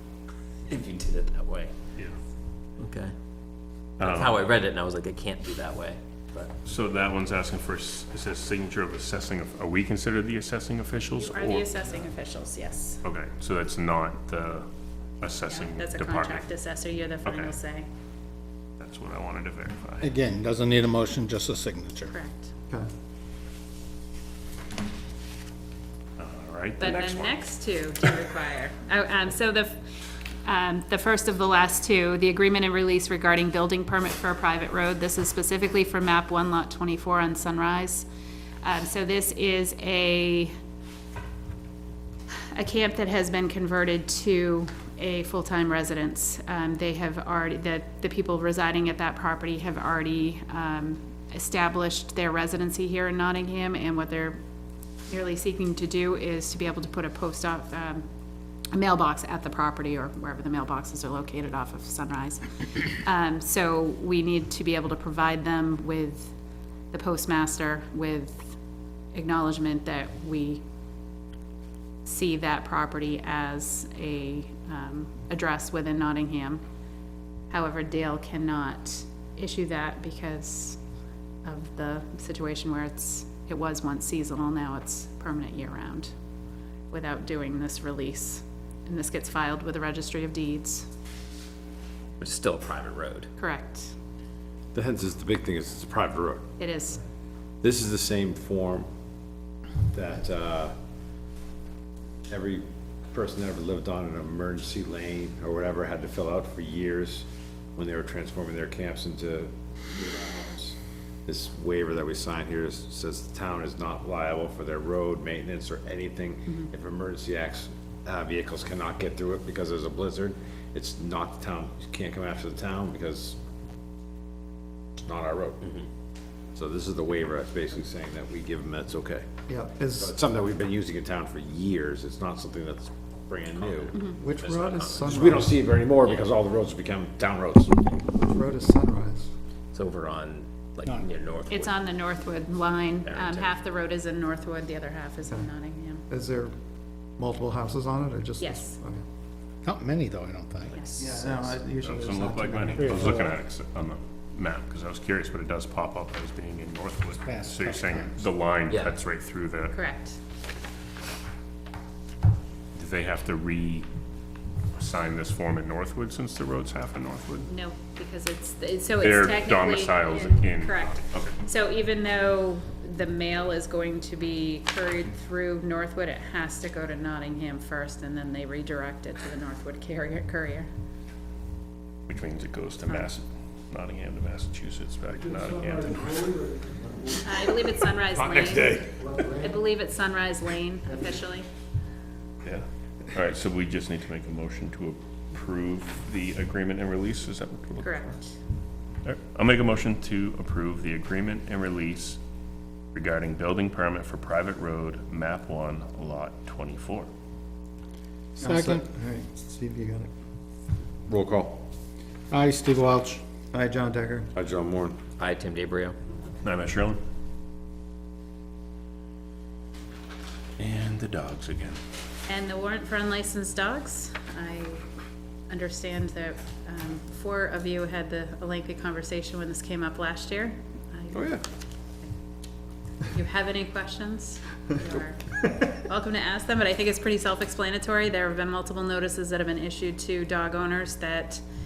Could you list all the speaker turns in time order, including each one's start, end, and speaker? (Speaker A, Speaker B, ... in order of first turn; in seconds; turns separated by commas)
Speaker A: 0.7-1.8, Speaker A: 2.8-3.1, Speaker B: 4.0-4.5, Speaker A: 4.0-6.6, Speaker B: 6.7-11.7, Speaker C: 11.2-13.0, Speaker B: 13.0-14.7, Speaker B: 15.2-16.5, Speaker C: 15.5-17.9, Speaker B: 17.2-17.5, Speaker B: 18.8-20.1, Speaker D: 20.0-22.1, Speaker C: 22.1-22.5, Speaker B: 26.2-27.4, Speaker C: 26.8-38.1, Speaker C: 38.6-40.5, Speaker C: 42.5-54.4, Speaker C: 55.1-58.0, Speaker C: 58.7-66.3, Speaker C: 66.9-68.6, Speaker C: 69.1-70.6, Speaker C: 72.0-76.6, Speaker C: 77.5-80.8, Speaker C: 81.5-86.1, Speaker C: 86.9-90.9, Speaker A: 92.2-93.3, Speaker C: 93.4-93.9, Speaker E: 94.7-96.4, Speaker C: 96.6-97.0, Speaker E: 97.6-98.9, Speaker E: 99.9-100.8, Speaker E: 102.3-123.4, Speaker E: 125.0-125.6, Speaker E: 126.5-129.3, Speaker F: 129.5-130.1, Speaker E: 130.0-133.9, Speaker A: 133.9-135.4, Speaker F: 134.1-135.5, Speaker E: 135.1-137.9, Speaker F: 138.2-139.3, Speaker A: 139.7-141.7, Speaker C: 141.5-146.0, Speaker A: 143.0-143.6, Speaker F: 146.1-146.6, Speaker F: 147.2-149.0, Speaker C: 148.4-148.8, Speaker D: 149.7-150.8, Speaker C: 150.7-151.1, Speaker F: 150.9-153.2, Speaker B: 151.3-159.8, Speaker D: 152.8-153.3, Speaker D: 157.2-158.2, Speaker A: 158.7-158.9, Speaker C: 159.7-160.2, Speaker B: 162.8-163.9, Speaker B: 164.8-167.5, Speaker C: 167.5-180.7, Speaker B: 169.0-171.3, Speaker B: 182.1-186.4, Speaker C: 187.2-191.5, Speaker B: 192.4-198.0, Speaker C: 197.8-198.3, Speaker B: 199.0-202.2, Speaker B: 202.9-207.1, Speaker D: 208.4-208.9, Speaker F: 208.4-210.1, Speaker E: 211.1-211.6, Speaker D: 212.3-213.2, Speaker F: 213.5-214.3, Speaker E: 214.3-215.0, Speaker A: 215.2-216.0, Speaker B: 216.4-217.0, Speaker B: 220.6-221.8, Speaker C: 222.3-224.8, Speaker C: 225.5-231.3, Speaker E: 231.1-231.4, Speaker C: 233.1-241.4